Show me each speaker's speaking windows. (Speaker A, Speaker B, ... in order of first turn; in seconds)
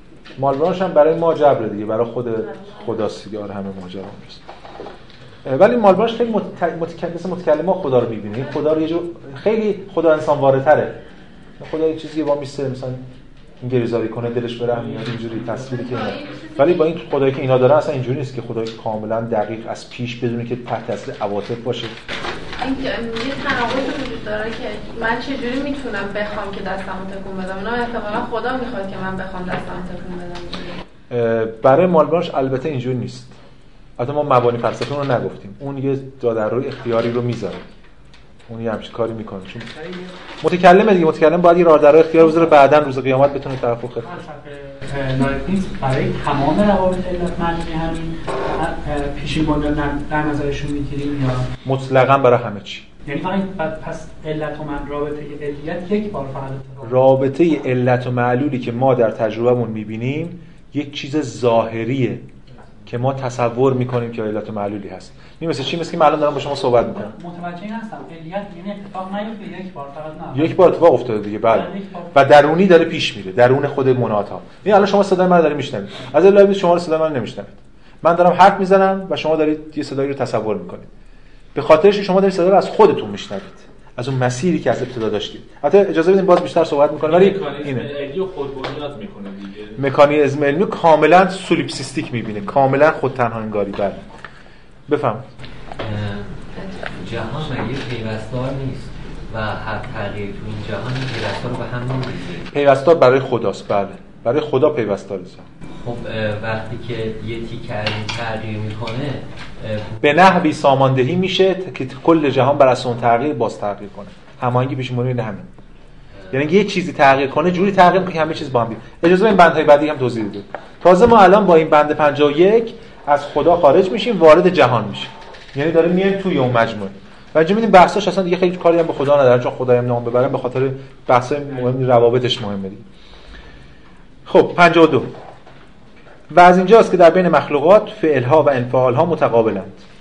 Speaker A: 0.4-4.4, 5.5-11.0, 11.6-13.0, 13.6-21.9, 31.1-33.4, 34.0-37.6, 38.5-39.7, 40.4-44.3, 51.6-52.9, 56.8-62.2, 62.9-67.2, 70.3-80.9, 81.5-87.9, 89.8-94.0, 94.9-95.2, 102.5-105.5, 110.0-115.5, 116.3-132.8, 134.3-135.1, 136.3-139.8
Speaker B: 15.6-16.9, 22.6-30.8
Speaker C: 39.8-40.1, 44.0-51.5, 53.1-57.0, 67.1-70.6, 71.5-72.3
Speaker D: 87.0-89.8
Speaker E: 95.8-102.5, 105.8-110.3